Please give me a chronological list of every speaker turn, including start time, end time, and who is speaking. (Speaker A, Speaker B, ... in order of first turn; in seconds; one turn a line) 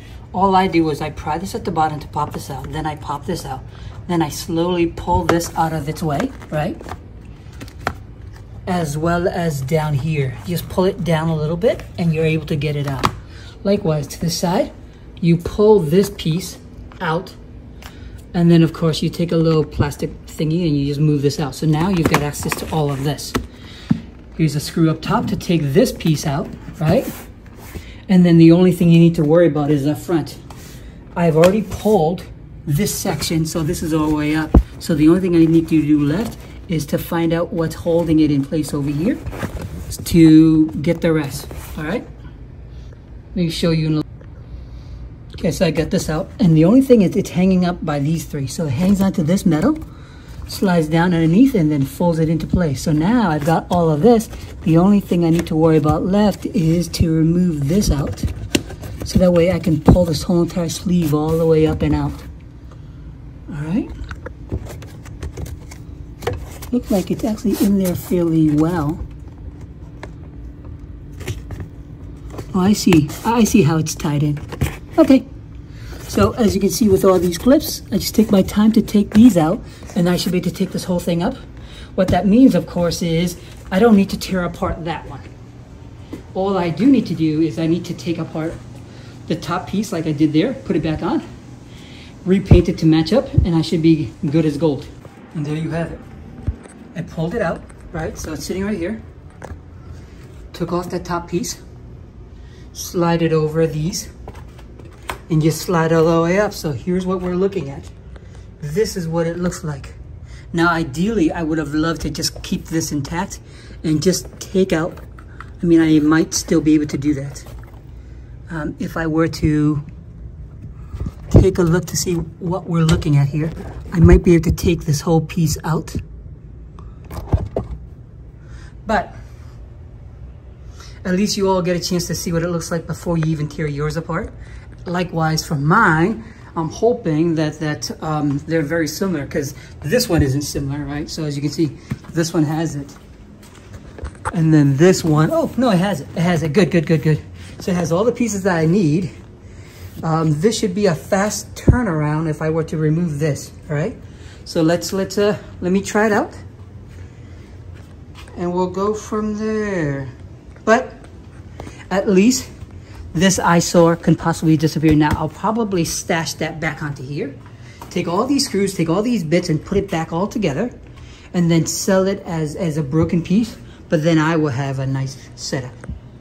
Speaker A: 0.3-6.8
Speaker A: 8.7-17.4
Speaker A: 18.3-23.4
Speaker A: 24.4-27.1
Speaker A: 28.1-30.4
Speaker A: 31.1-39.2
Speaker A: 39.9-42.1
Speaker A: 43.3-44.0
Speaker A: 45.4-49.8
Speaker A: 50.5-58.3
Speaker A: 59.0-62.2
Speaker A: 63.5-63.9
Speaker A: 66.7-69.0
Speaker A: 72.5-74.4
Speaker A: 75.0-75.3
Speaker A: 76.1-81.4
Speaker A: 82.0-85.3
Speaker A: 86.3-88.6
Speaker A: 89.3-91.2
Speaker A: 92.2-96.0
Speaker A: 96.9-99.0
Speaker A: 100.5-101.6
Speaker A: 102.7-104.1
Speaker A: 105.3-107.9
Speaker A: 108.6-110.0
Speaker A: 110.5-115.0
Speaker A: 115.6-117.5
Speaker A: 118.5-119.8
Speaker A: 121.3-126.0
Speaker A: 128.8-129.2
Speaker A: 131.0-134.3
Speaker A: 134.8-143.0
Speaker A: 144.3-149.1
Speaker A: 150.0-156.4
Speaker A: 158.3-160.1
Speaker A: 160.7-161.0
Speaker A: 161.9-162.5
Speaker A: 163.1-167.4
Speaker A: 167.9-170.8
Speaker A: 171.3-175.8